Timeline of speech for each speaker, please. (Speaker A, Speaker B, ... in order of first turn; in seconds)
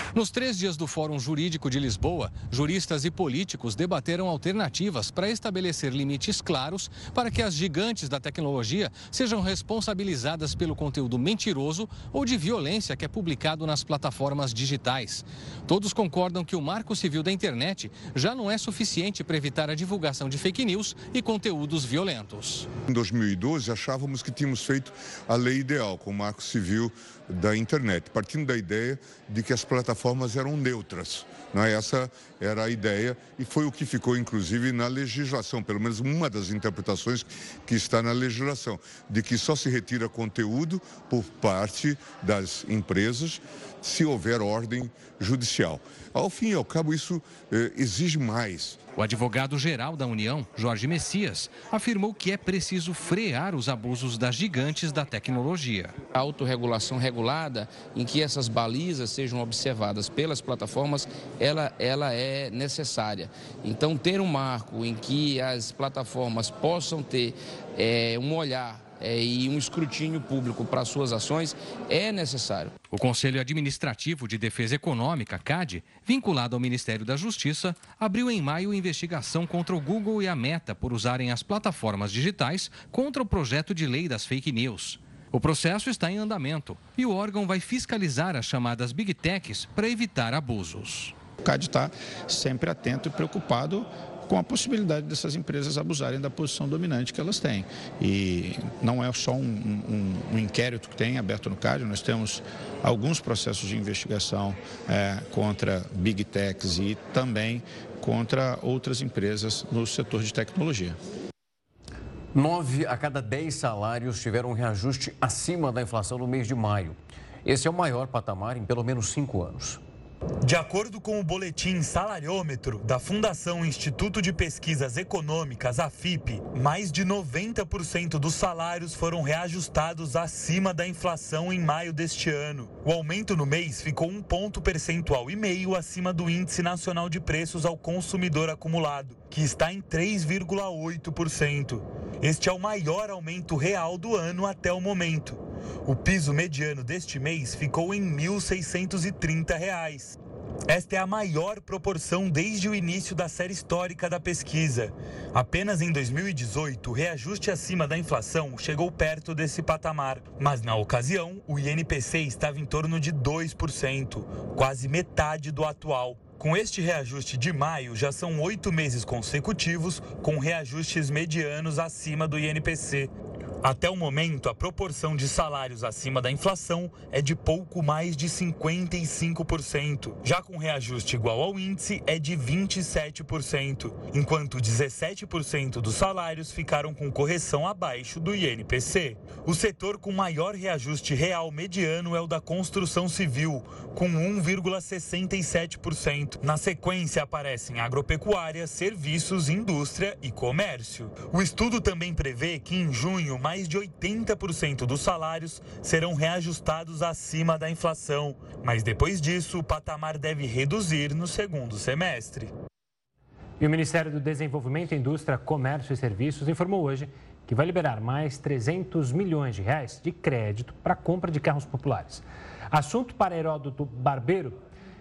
Speaker A: 0.1-22.7, 49.0-56.0, 72.9-91.2
Speaker B: 22.9-48.8
Speaker C: 56.1-72.7
Speaker D: 91.4-111.0
Speaker E: 112.3-119.8
Speaker F: 120.4-150.2, 150.7-173.1, 173.6-212.5
Speaker G: 213.6-224.6